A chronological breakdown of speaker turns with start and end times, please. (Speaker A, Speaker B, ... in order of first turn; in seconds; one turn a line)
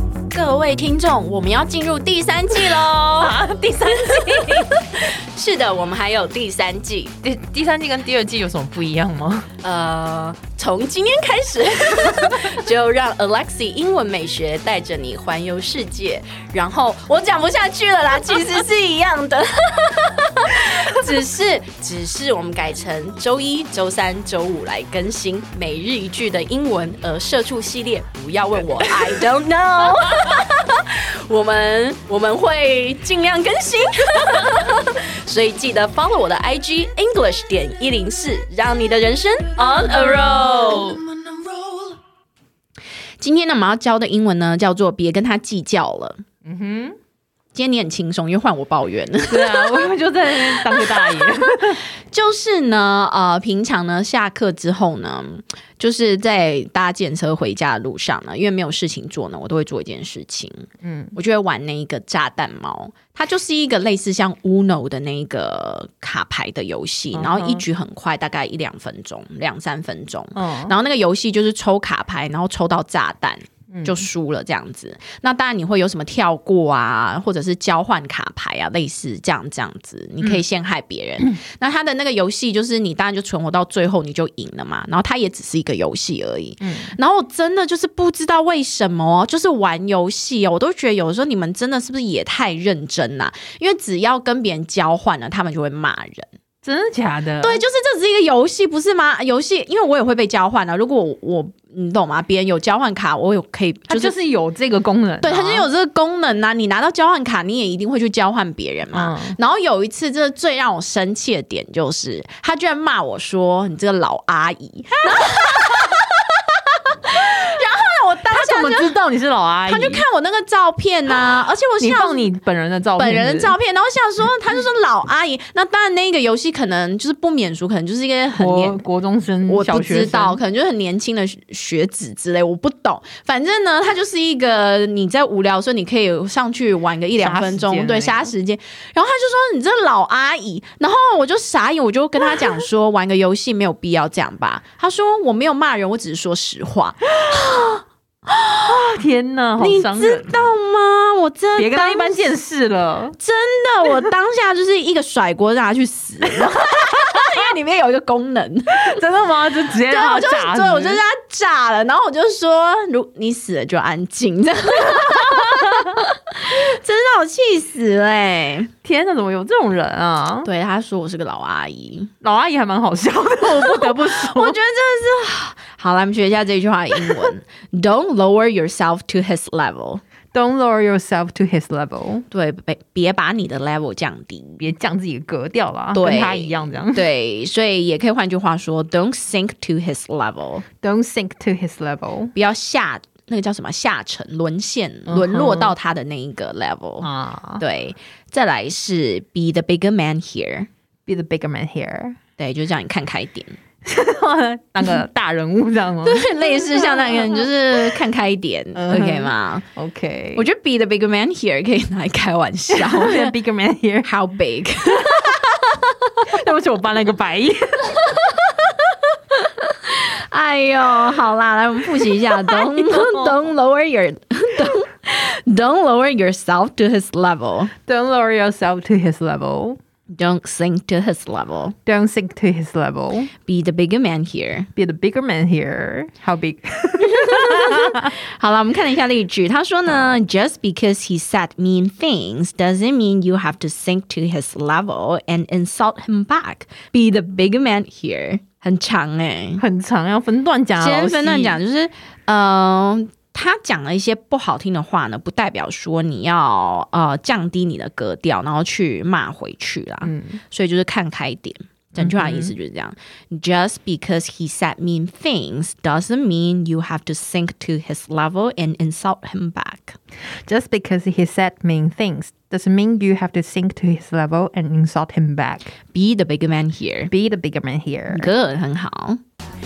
Speaker A: 0.3-3.4
Speaker B: 3.2-4.8
Speaker A: 4.2-7.2
Speaker B: 7.2-9.5
Speaker A: 9.6-40.9
Speaker B: 39.6-41.0
Speaker A: 43.2-46.2
Speaker B: 46.4-47.0
Speaker A: 47.5-49.9
Speaker B: 49.3-51.8
Speaker A: 50.5-51.3
Speaker A: 52.1-96.3
Speaker B: 60.8-61.1
Speaker B: 67.1-67.6
Speaker B: 70.3-70.7
Speaker B: 73.7-74.0
Speaker B: 86.6-86.9
Speaker B: 96.6-97.6
Speaker A: 97.4-104.1
Speaker B: 103.9-105.7
Speaker A: 105.2-119.0
Speaker B: 108.9-109.4
Speaker B: 118.3-120.0
Speaker A: 119.7-122.3
Speaker B: 121.8-123.5
Speaker A: 123.0-128.8
Speaker B: 128.3-130.4
Speaker A: 129.5-148.6
Speaker B: 137.2-138.3
Speaker B: 148.7-150.3
Speaker A: 149.6-152.3
Speaker B: 151.6-153.2
Speaker A: 153.2-158.9
Speaker B: 158.7-161.0
Speaker A: 159.8-168.7
Speaker B: 168.8-170.5
Speaker A: 170.4-172.1
Speaker B: 172.2-174.6
Speaker A: 173.6-180.0
Speaker B: 180.3-182.2
Speaker A: 182.3-184.6
Speaker B: 184.6-187.1
Speaker A: 185.9-190.6
Speaker B: 190.8-192.3
Speaker A: 192.3-200.7
Speaker B: 195.1-195.7
Speaker B: 197.0-197.6
Speaker B: 201.1-202.2
Speaker A: 202.4-203.6
Speaker B: 203.8-207.5
Speaker A: 206.0-209.6
Speaker B: 208.7-210.4
Speaker A: 210.3-213.3
Speaker B: 212.7-214.1
Speaker A: 214.0-215.6
Speaker B: 216.3-218.1
Speaker A: 219.3-227.7
Speaker B: 222.5-223.3
Speaker B: 227.8-229.8
Speaker A: 230.1-231.7
Speaker B: 231.8-233.3
Speaker A: 233.4-234.7
Speaker B: 234.8-238.1
Speaker A: 237.0-249.6
Speaker B: 249.6-251.6
Speaker A: 250.8-270.0
Speaker B: 260.0-260.4
Speaker B: 262.0-262.5
Speaker B: 270.5-275.7
Speaker A: 275.9-277.1
Speaker B: 277.1-278.3
Speaker A: 278.1-279.2